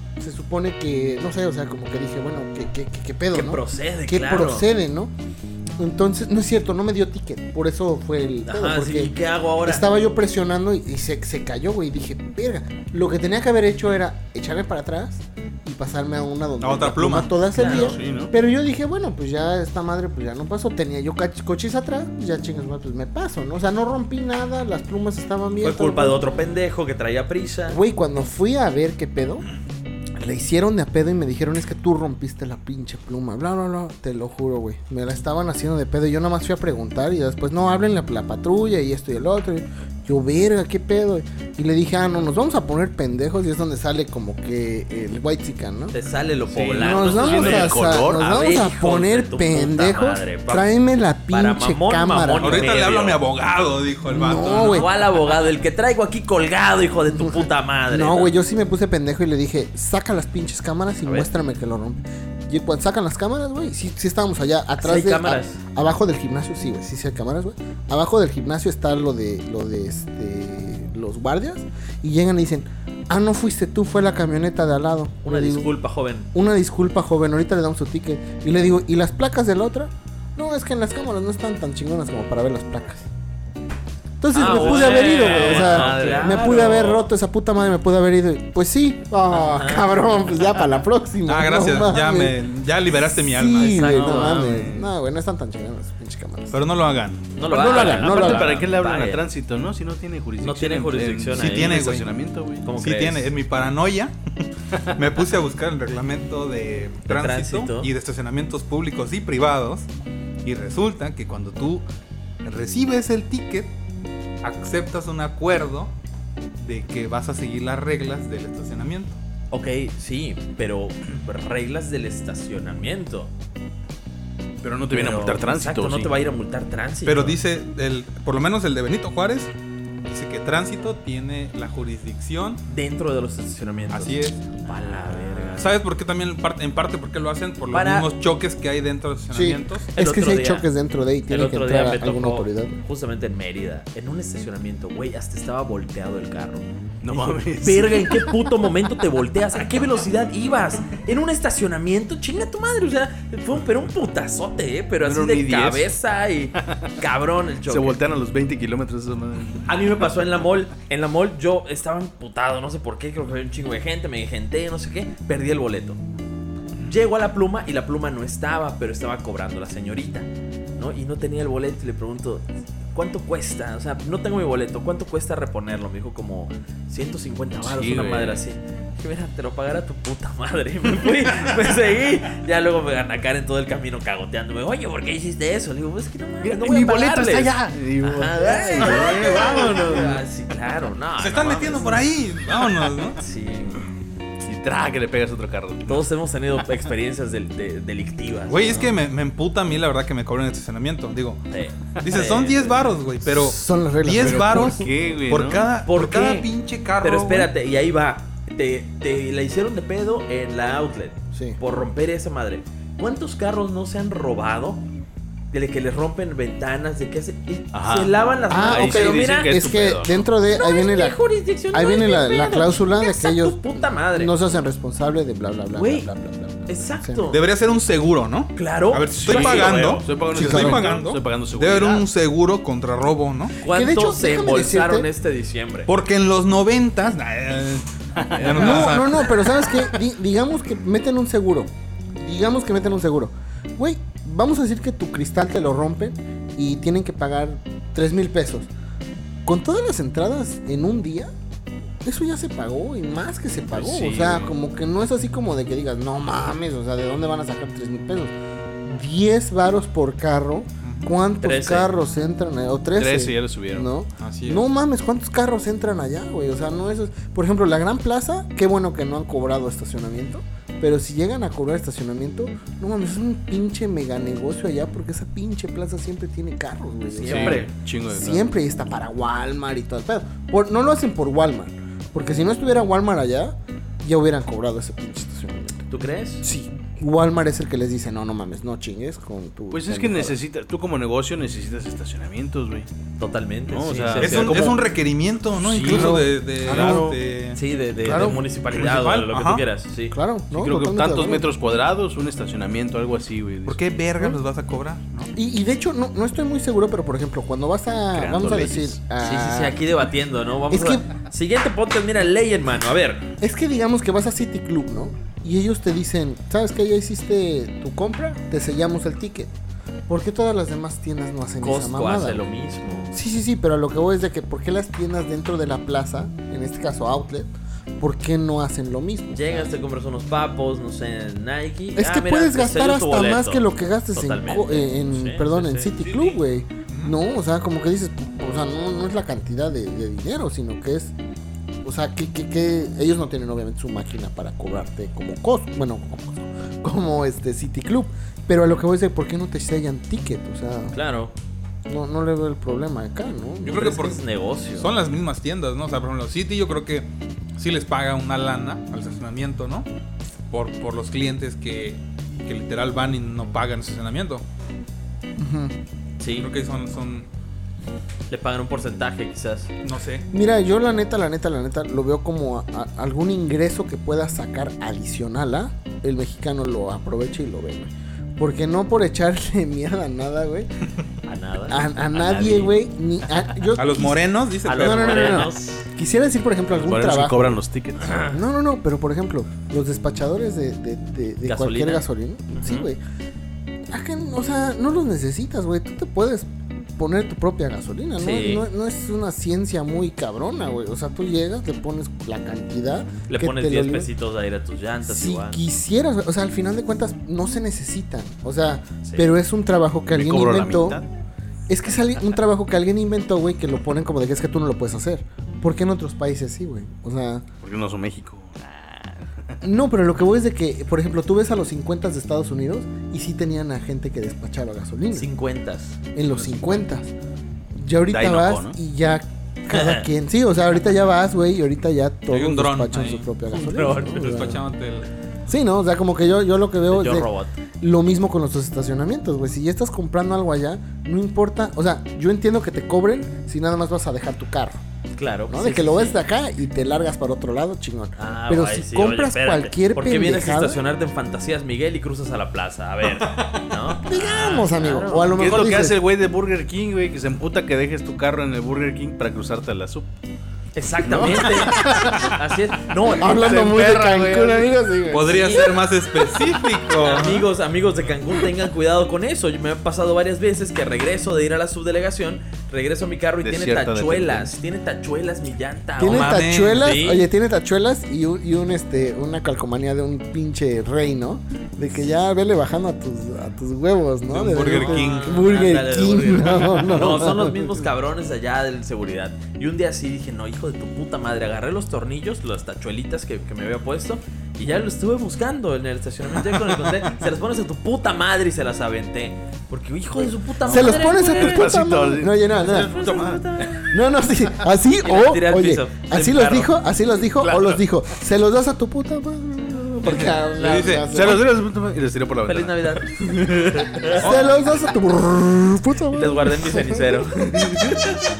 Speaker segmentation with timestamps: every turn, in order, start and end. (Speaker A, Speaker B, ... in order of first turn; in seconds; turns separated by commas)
Speaker A: 0.2-5.1, Speaker B: 3.3-4.7, Speaker A: 5.8-26.3, Speaker B: 8.4-9.9, Speaker C: 16.6-17.4, Speaker B: 17.5-18.0, Speaker D: 17.6-18.3, Speaker B: 25.6-27.8, Speaker A: 27.7-29.4, Speaker A: 30.1-45.9, Speaker B: 45.9-50.7, Speaker D: 46.5-48.3, Speaker A: 46.8-52.7, Speaker B: 51.3-53.2, Speaker C: 52.4-54.9, Speaker A: 54.1-54.9, Speaker B: 54.6-58.3, Speaker A: 57.1-75.7, Speaker B: 64.8-65.6, Speaker B: 75.2-76.3, Speaker A: 76.3-83.1, Speaker A: 84.2-92.4, Speaker B: 84.3-87.1, Speaker D: 84.4-86.8, Speaker B: 89.3-89.9, Speaker C: 91.2-94.1, Speaker A: 93.1-96.6, Speaker B: 93.5-94.5, Speaker D: 94.0-94.9, Speaker C: 96.5-97.2, Speaker B: 97.3-99.2, Speaker A: 97.4-98.6, Speaker D: 97.5-102.7, Speaker B: 100.4-101.8, Speaker C: 101.3-102.1, Speaker B: 102.6-103.3, Speaker C: 102.8-104.1, Speaker C: 104.9-109.9, Speaker B: 107.1-107.9, Speaker C: 110.4-111.8, Speaker C: 112.4-113.7, Speaker C: 114.4-115.9, Speaker C: 116.6-119.2, Speaker B: 119.5-123.3, Speaker D: 124.6-126.1, Speaker B: 124.9-127.4, Speaker C: 127.0-129.5, Speaker C: 130.1-132.6, Speaker B: 132.7-135.7, Speaker C: 133.9-134.4, Speaker C: 135.6-139.9, Speaker B: 137.7-138.1, Speaker A: 139.3-142.8, Speaker B: 139.9-140.7, Speaker B: 141.3-158.0, Speaker D: 147.0-148.4, Speaker D: 155.0-155.9, Speaker D: 156.6-156.9, Speaker D: 157.7-159.8, Speaker B: 159.7-166.0, Speaker B: 166.8-192.1, Speaker D: 177.6-178.4, Speaker D: 186.4-190.2, Speaker C: 191.2-193.2, Speaker B: 193.2-193.9, Speaker D: 194.4-196.1, Speaker B: 195.9-198.9, Speaker C: 198.5-201.4, Speaker B: 201.5-202.8, Speaker C: 202.0-207.5, Speaker A: 203.2-204.9, Speaker D: 204.2-205.7, Speaker B: 205.8-206.5, Speaker B: 207.0-214.8, Speaker A: 211.3-211.6, Speaker B: 215.5-219.6, Speaker D: 217.7-220.3, Speaker A: 218.5-221.2, Speaker B: 220.5-224.3, Speaker A: 221.7-227.2, Speaker B: 225.7-226.1, Speaker B: 226.7-227.4, Speaker C: 227.3-233.6, Speaker B: 228.6-230.0, Speaker D: 229.2-232.1, Speaker A: 230.3-230.9, Speaker B: 233.6-235.9, Speaker A: 233.7-235.1, Speaker C: 235.9-239.3, Speaker B: 238.3-239.0, Speaker D: 238.4-238.7, Speaker A: 238.6-248.7, Speaker A: 249.4-251.3, Speaker A: 252.0-258.3, Speaker B: 253.7-254.5, Speaker A: 258.9-285.9, Speaker C: 260.8-261.1, Speaker B: 261.4-261.9, Speaker D: 263.0-263.9, Speaker C: 264.2-264.6, Speaker B: 277.1-277.7, Speaker D: 277.2-278.5, Speaker B: 285.9-286.4, Speaker A: 286.4-290.4, Speaker D: 289.7-292.9, Speaker B: 293.2-294.7, Speaker D: 293.7-294.9, Speaker C: 294.2-297.6, Speaker D: 295.6-297.1, Speaker A: 295.8-297.2, Speaker B: 297.5-300.1, Speaker A: 298.1-298.4, Speaker C: 298.1-299.6, Speaker A: 300.1-301.5, Speaker D: 300.5-303.8, Speaker C: 303.6-305.3, Speaker A: 305.4-309.8, Speaker D: 308.1-309.0, Speaker B: 309.2-313.2, Speaker A: 310.7-311.1, Speaker A: 313.4-319.5, Speaker A: 320.1-322.5, Speaker B: 321.6-323.1, Speaker A: 323.1-329.7, Speaker B: 329.3-335.9, Speaker A: 331.9-341.1, Speaker D: 336.0-336.4, Speaker C: 336.9-337.2, Speaker A: 341.8-350.9, Speaker B: 350.9-351.3, Speaker A: 351.9-354.2, Speaker C: 353.6-354.2, Speaker B: 353.7-354.9, Speaker C: 354.7-359.9, Speaker C: 360.5-364.4, Speaker A: 365.4-365.7, Speaker B: 366.2-366.5, Speaker C: 366.3-367.3, Speaker B: 368.3-369.7, Speaker C: 369.8-370.2, Speaker A: 370.3-380.7, Speaker B: 381.2-381.9, Speaker A: 381.7-387.6, Speaker D: 382.1-382.7, Speaker C: 383.8-385.5, Speaker B: 384.6-385.9, Speaker D: 386.7-388.3, Speaker A: 388.2-393.0, Speaker B: 391.4-392.9, Speaker A: 393.9-404.1, Speaker B: 398.2-398.7, Speaker B: 403.3-405.6, Speaker A: 405.1-411.0, Speaker B: 409.0-409.3, Speaker D: 410.1-411.1, Speaker A: 411.7-417.4, Speaker D: 417.6-419.6, Speaker A: 419.6-425.3, Speaker B: 425.1-426.0, Speaker A: 426.1-427.1, Speaker D: 426.3-426.6, Speaker A: 427.7-434.6, Speaker D: 428.1-428.8, Speaker B: 429.7-430.1, Speaker C: 432.3-433.3, Speaker B: 433.5-434.6, Speaker C: 434.1-435.1, Speaker A: 435.5-444.8, Speaker B: 436.9-437.6, Speaker B: 445.1-446.2, Speaker A: 445.5-450.8, Speaker B: 448.2-455.4, Speaker A: 454.0-456.0, Speaker D: 455.3-460.1, Speaker B: 460.7-463.8, Speaker D: 461.0-462.4, Speaker A: 461.1-462.1, Speaker A: 463.2-465.8, Speaker D: 463.2-464.7, Speaker C: 465.1-467.5, Speaker B: 465.3-465.6, Speaker B: 467.0-477.3, Speaker D: 473.4-474.5, Speaker A: 476.0-487.8, Speaker C: 476.1-476.9, Speaker C: 484.3-485.5, Speaker B: 484.8-501.7, Speaker D: 500.6-503.4, Speaker A: 500.7-503.0, Speaker B: 502.6-503.9, Speaker A: 503.8-511.4, Speaker B: 505.0-506.7, Speaker D: 507.4-507.8, Speaker D: 510.1-510.4, Speaker C: 510.6-511.3, Speaker D: 511.1-512.9, Speaker B: 512.4-514.4, Speaker A: 514.1-517.7, Speaker C: 514.2-514.6, Speaker B: 516.1-518.0